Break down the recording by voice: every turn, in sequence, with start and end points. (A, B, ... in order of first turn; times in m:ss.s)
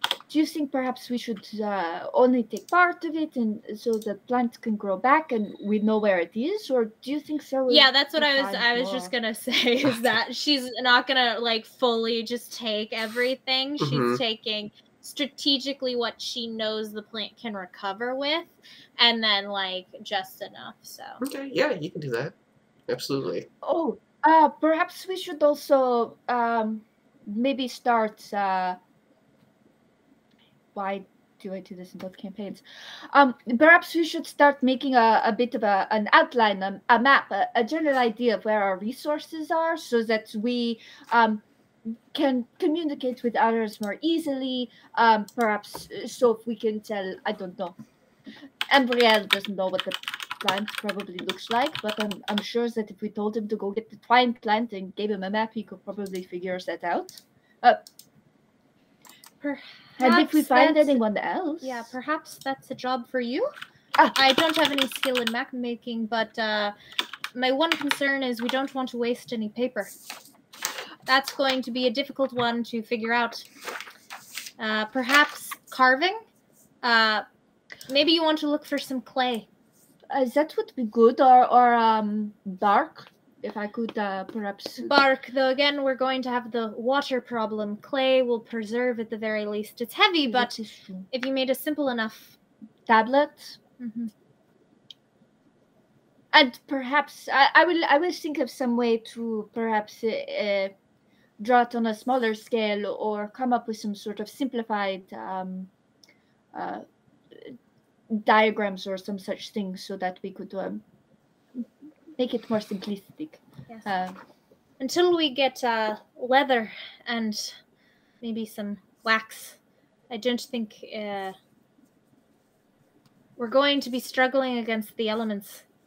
0:00.3-0:09.1 A
0:07.7-0:21.2 B
0:13.8-0:14.2 C
0:21.2-0:22.3 C
0:22.9-0:23.5 C
0:23.6-0:28.8 A
0:30.7-0:47.8 A
0:48.7-0:57.8 A
0:59.4-1:01.0 B
1:00.0-1:01.9 A
1:01.6-1:03.5 B
1:04.1-1:06.7 B
1:07.3-1:09.9 B
1:11.1-1:13.5 B
1:14.6-1:16.2 B
1:16.8-1:17.2 B
1:17.9-1:19.5 B
1:20.1-1:25.0 A
1:24.8-1:30.5 B
1:30.2-1:31.1 A
1:31.1-1:32.4 B
1:32.9-1:33.6 A
1:33.8-1:34.1 B
1:36.3-1:40.7 A
1:41.4-1:45.7 A
1:46.5-1:47.6 A
1:48.1-1:50.8 A
1:52.2-1:54.2 A
1:54.8-1:57.6 B
1:58.2-1:59.6 B
2:00.1-2:01.3 B
2:03.4-2:05.6 B